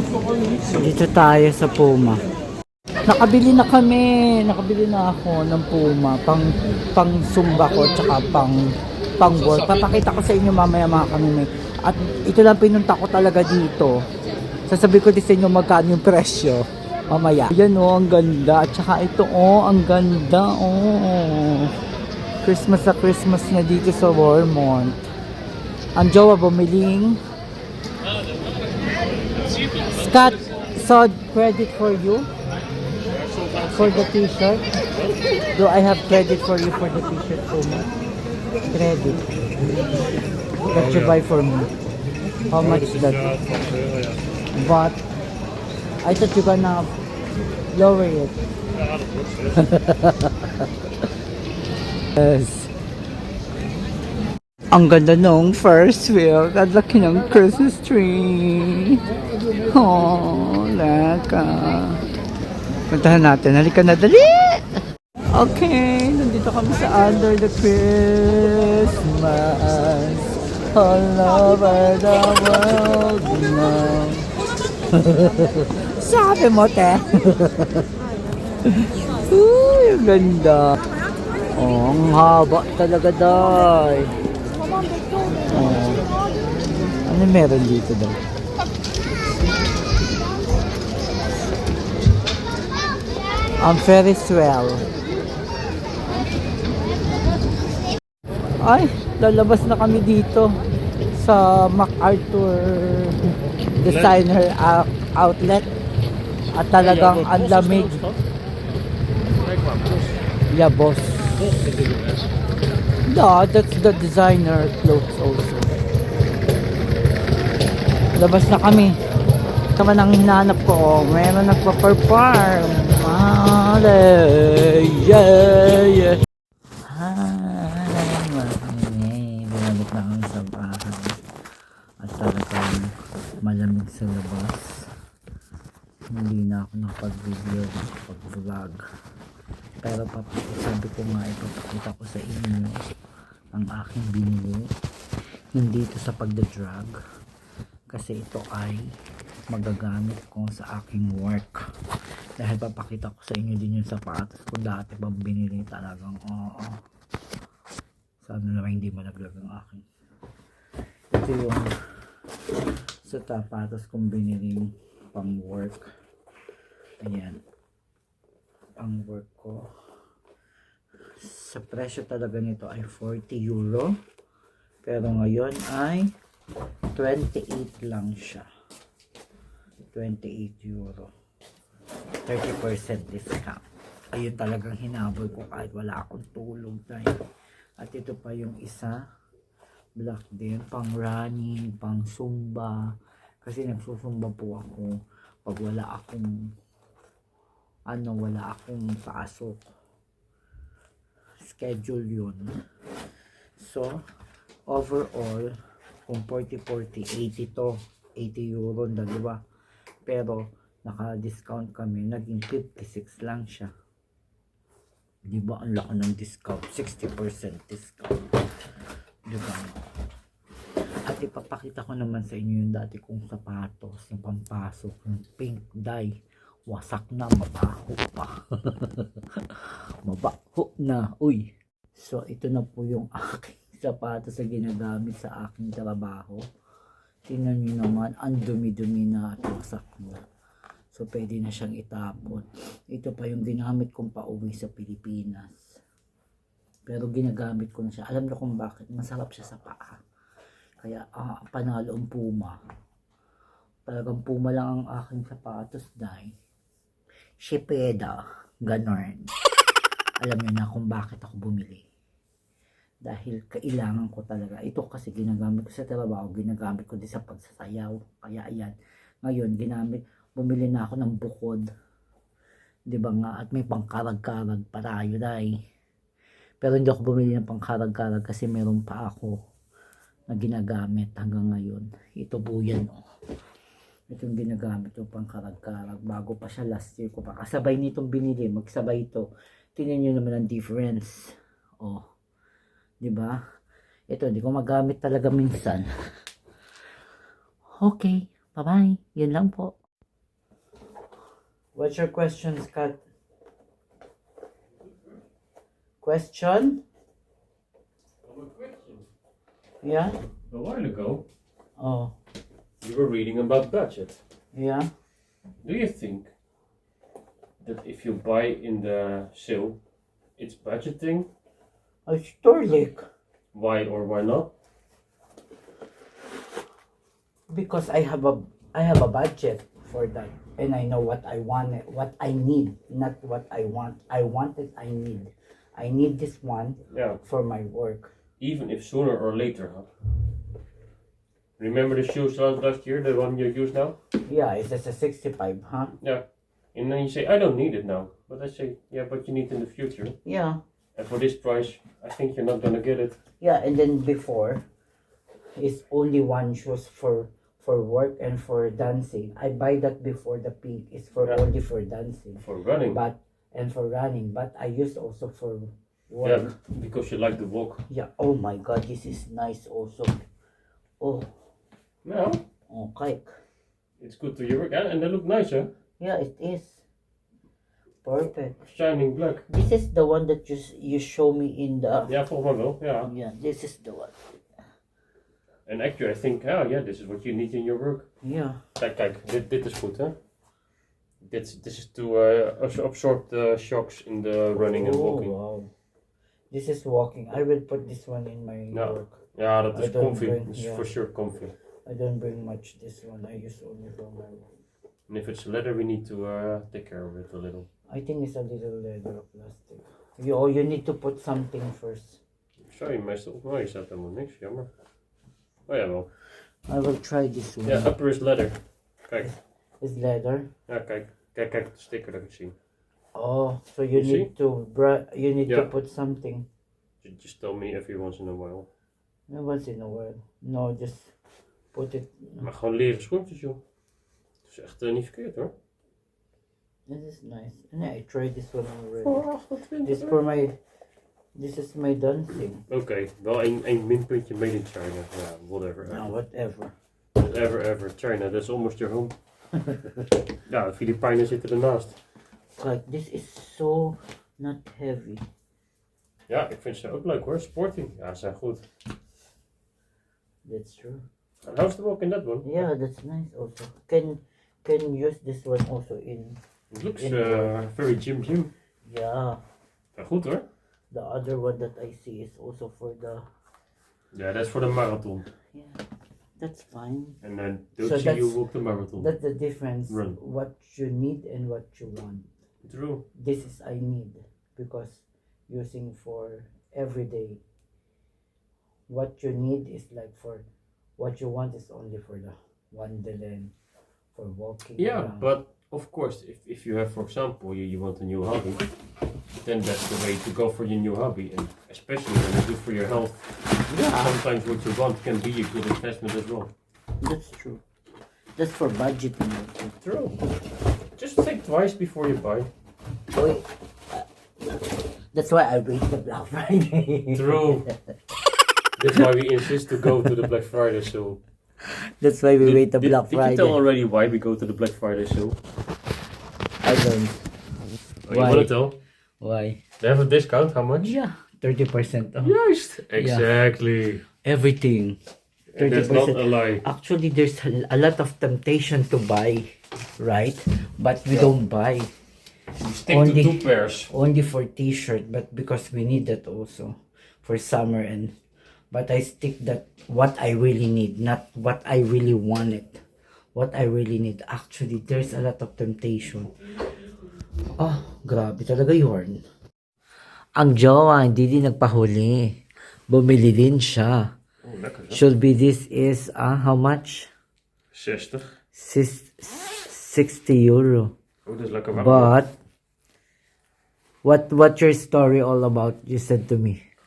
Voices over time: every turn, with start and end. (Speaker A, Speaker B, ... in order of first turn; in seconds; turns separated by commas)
Speaker A: 0.7-2.2, Speaker A: 3.0-8.7, Speaker A: 9.2-13.9, Speaker A: 14.7-21.7, Speaker A: 22.4-25.0, Speaker A: 25.9-27.2, Speaker B: 28.0-30.3, Speaker A: 29.9-32.3, Speaker B: 33.1-34.1, Speaker A: 33.7-34.6, Speaker B: 34.9-35.2, Speaker A: 35.5-37.9, Speaker A: 38.7-39.2, Speaker B: 40.6-41.2, Speaker A: 40.7-41.7, Speaker A: 42.5-43.4, Speaker B: 42.6-44.2, Speaker A: 44.5-45.0, Speaker A: 46.0-46.9, Speaker A: 47.7-48.3, Speaker B: 48.7-49.7, Speaker A: 49.6-50.7, Speaker A: 52.1-52.7, Speaker A: 54.7-59.0, Speaker A: 59.6-62.0, Speaker A: 62.9-64.7, Speaker A: 65.3-74.3, Speaker A: 74.9-77.8, Speaker A: 78.7-80.8, Speaker A: 81.5-84.1, Speaker A: 85.5-86.0, Speaker A: 87.1-88.2, Speaker A: 93.6-94.8, Speaker A: 98.6-100.5, Speaker A: 101.1-103.2, Speaker A: 103.8-105.7, Speaker B: 103.8-104.2, Speaker A: 106.5-108.0, Speaker B: 106.8-108.2, Speaker B: 109.4-110.2, Speaker A: 110.5-111.7, Speaker B: 111.3-112.3, Speaker A: 113.0-115.7, Speaker A: 118.2-119.0, Speaker A: 119.8-126.2, Speaker A: 126.9-131.2, Speaker A: 132.0-132.9, Speaker A: 133.4-134.8, Speaker A: 136.1-138.8, Speaker A: 139.8-142.8, Speaker A: 143.5-144.7, Speaker A: 145.5-146.9, Speaker A: 147.9-148.8, Speaker A: 149.5-151.6, Speaker A: 152.4-156.8, Speaker A: 158.2-159.8, Speaker A: 161.1-161.7, Speaker A: 163.0-165.9, Speaker A: 167.0-167.4, Speaker A: 168.8-169.7, Speaker A: 171.2-174.0, Speaker A: 174.8-176.1, Speaker A: 176.9-178.5, Speaker A: 179.9-181.1, Speaker A: 182.2-187.2, Speaker A: 187.8-189.0, Speaker A: 190.0-192.9, Speaker A: 193.4-196.4, Speaker A: 197.9-199.6, Speaker A: 201.4-202.6, Speaker A: 203.6-204.0, Speaker A: 204.7-205.5, Speaker A: 206.1-209.4, Speaker A: 210.1-213.7, Speaker A: 215.3-218.3, Speaker A: 219.3-219.7, Speaker A: 221.1-226.1, Speaker A: 226.7-231.4, Speaker A: 231.9-236.4, Speaker A: 237.2-240.2, Speaker A: 240.9-245.6, Speaker A: 246.8-250.0, Speaker A: 250.8-252.6, Speaker A: 253.9-256.3, Speaker A: 257.4-259.3, Speaker A: 260.2-261.8, Speaker A: 263.0-271.6, Speaker A: 272.9-275.5, Speaker A: 276.6-279.3, Speaker A: 280.3-282.9, Speaker A: 284.1-292.0, Speaker A: 293.0-293.4, Speaker A: 294.1-295.9, Speaker A: 297.8-299.7, Speaker A: 301.7-303.0, Speaker B: 304.8-305.2, Speaker A: 306.0-306.8, Speaker B: 308.2-309.1, Speaker A: 309.8-310.1, Speaker B: 310.5-311.2, Speaker A: 311.8-312.1, Speaker B: 312.8-314.2, Speaker A: 314.5-314.9, Speaker B: 315.6-316.3, Speaker B: 317.6-319.8, Speaker B: 320.4-321.3, Speaker A: 322.1-323.1, Speaker B: 323.5-324.5, Speaker A: 327.5-338.1, Speaker B: 336.9-337.2, Speaker B: 338.4-339.9, Speaker B: 341.6-343.9, Speaker A: 344.2-345.9, Speaker B: 346.0-350.1, Speaker A: 350.2-350.6, Speaker B: 350.9-353.2, Speaker A: 353.4-354.6, Speaker A: 355.6-366.6, Speaker B: 362.4-363.0, Speaker B: 366.2-367.8, Speaker A: 367.9-370.1, Speaker A: 371.0-371.3, Speaker B: 372.0-372.4, Speaker A: 372.7-373.3, Speaker B: 374.0-375.7, Speaker A: 376.0-376.8, Speaker A: 378.0-378.6, Speaker B: 378.6-379.4, Speaker A: 379.5-382.1, Speaker B: 382.1-383.1, Speaker A: 383.0-384.1, Speaker B: 385.6-388.1, Speaker A: 388.2-388.6, Speaker B: 388.8-390.1, Speaker B: 391.2-395.3, Speaker A: 394.6-395.7, Speaker A: 396.5-399.2, Speaker B: 398.7-401.5, Speaker A: 399.7-400.8, Speaker A: 401.9-404.5, Speaker B: 405.1-407.7, Speaker A: 407.9-412.2, Speaker B: 412.6-414.7, Speaker B: 415.7-416.1, Speaker A: 416.7-417.9, Speaker B: 417.6-419.3, Speaker A: 419.2-420.5, Speaker B: 420.7-422.5, Speaker A: 423.1-426.4, Speaker B: 423.9-424.3, Speaker B: 427.0-428.7, Speaker A: 429.3-431.1, Speaker A: 431.7-432.5, Speaker B: 432.4-433.6, Speaker B: 434.5-435.5, Speaker A: 436.9-439.2, Speaker B: 439.0-440.2, Speaker A: 439.8-440.6, Speaker A: 441.4-442.6, Speaker B: 442.7-446.1, Speaker A: 445.9-446.7, Speaker B: 447.1-449.1, Speaker B: 450.4-452.0, Speaker A: 452.6-455.2, Speaker B: 456.3-458.6, Speaker A: 460.4-461.0, Speaker B: 461.4-462.6, Speaker A: 462.4-466.4, Speaker B: 466.7-468.5, Speaker A: 467.0-467.5, Speaker A: 468.9-469.4, Speaker B: 469.9-470.4, Speaker A: 470.9-473.2, Speaker B: 474.1-475.2, Speaker A: 475.5-475.8, Speaker A: 476.4-477.2, Speaker B: 477.2-479.1, Speaker A: 477.8-478.4, Speaker A: 479.0-482.3, Speaker B: 479.9-480.2, Speaker B: 482.6-483.0, Speaker A: 483.1-487.4, Speaker A: 488.9-490.4, Speaker A: 491.0-493.5, Speaker A: 494.1-495.3, Speaker B: 494.8-498.6, Speaker B: 499.4-503.3, Speaker A: 503.7-504.2, Speaker B: 503.8-506.5, Speaker A: 507.0-507.6, Speaker A: 508.4-509.8, Speaker B: 509.8-510.1, Speaker B: 511.0-512.5, Speaker A: 513.1-514.0, Speaker A: 515.1-517.5, Speaker B: 517.1-517.6, Speaker B: 518.8-521.2, Speaker A: 522.0-523.6, Speaker B: 522.4-525.4, Speaker A: 526.6-527.2, Speaker B: 528.1-528.8, Speaker A: 528.1-528.5, Speaker A: 529.2-529.6, Speaker B: 529.8-530.9, Speaker A: 530.8-532.3, Speaker B: 532.1-534.0, Speaker A: 533.0-533.2, Speaker A: 534.2-535.0, Speaker B: 535.5-536.6, Speaker A: 535.6-539.5, Speaker A: 540.0-541.9, Speaker B: 542.6-543.9, Speaker A: 542.9-548.1, Speaker A: 548.7-552.8, Speaker A: 553.3-556.3, Speaker A: 557.6-559.2, Speaker A: 560.4-564.1, Speaker B: 564.4-565.0, Speaker A: 564.9-567.1, Speaker B: 567.7-568.3, Speaker A: 568.5-570.9, Speaker B: 571.2-572.1, Speaker A: 571.7-572.3, Speaker A: 574.0-576.6